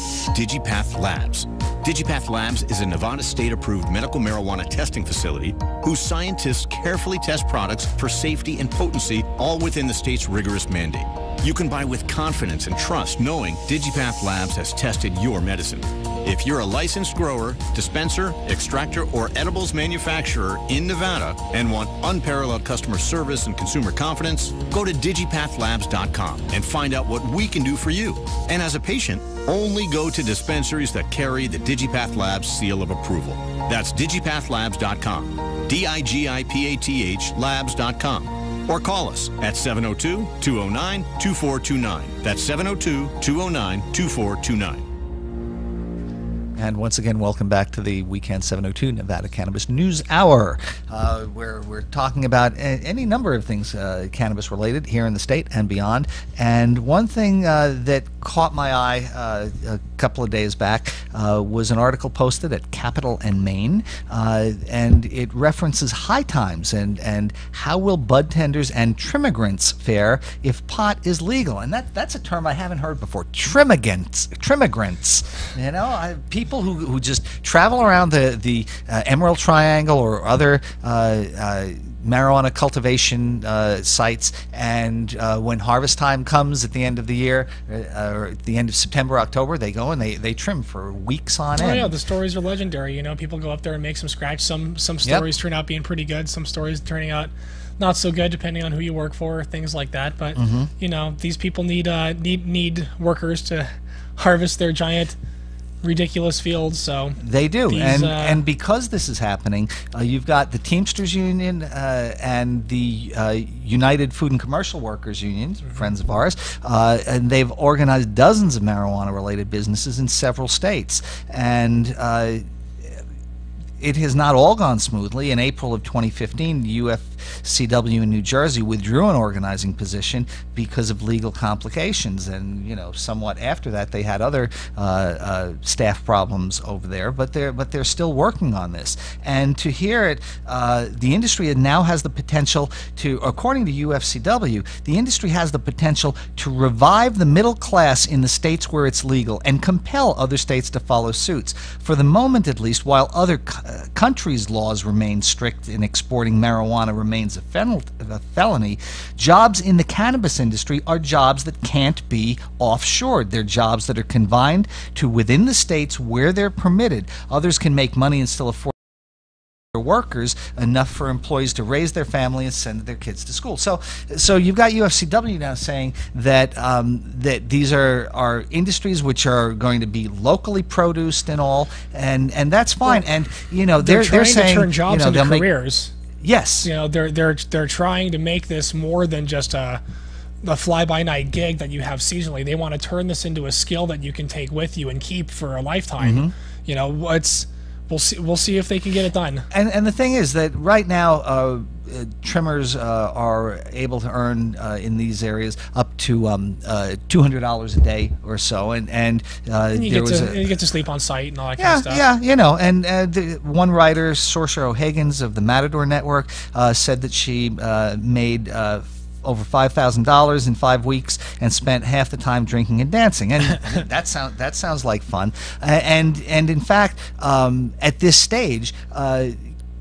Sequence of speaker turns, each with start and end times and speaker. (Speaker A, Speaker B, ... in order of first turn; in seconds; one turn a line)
Speaker A: 0.3-44.9
Speaker B: 46.6-92.0
Speaker C: 91.6-105.2
Speaker B: 100.4-100.7
Speaker C: 105.8-108.4
Speaker B: 107.2-122.9
Speaker B: 123.8-168.8
Speaker B: 169.7-185.5
Speaker C: 183.8-185.9
Speaker B: 186.2-186.7
Speaker C: 186.6-189.8
Speaker C: 190.4-199.5
Speaker B: 196.0-196.3
Speaker B: 199.5-210.4
Speaker C: 209.7-212.0
Speaker B: 211.6-229.4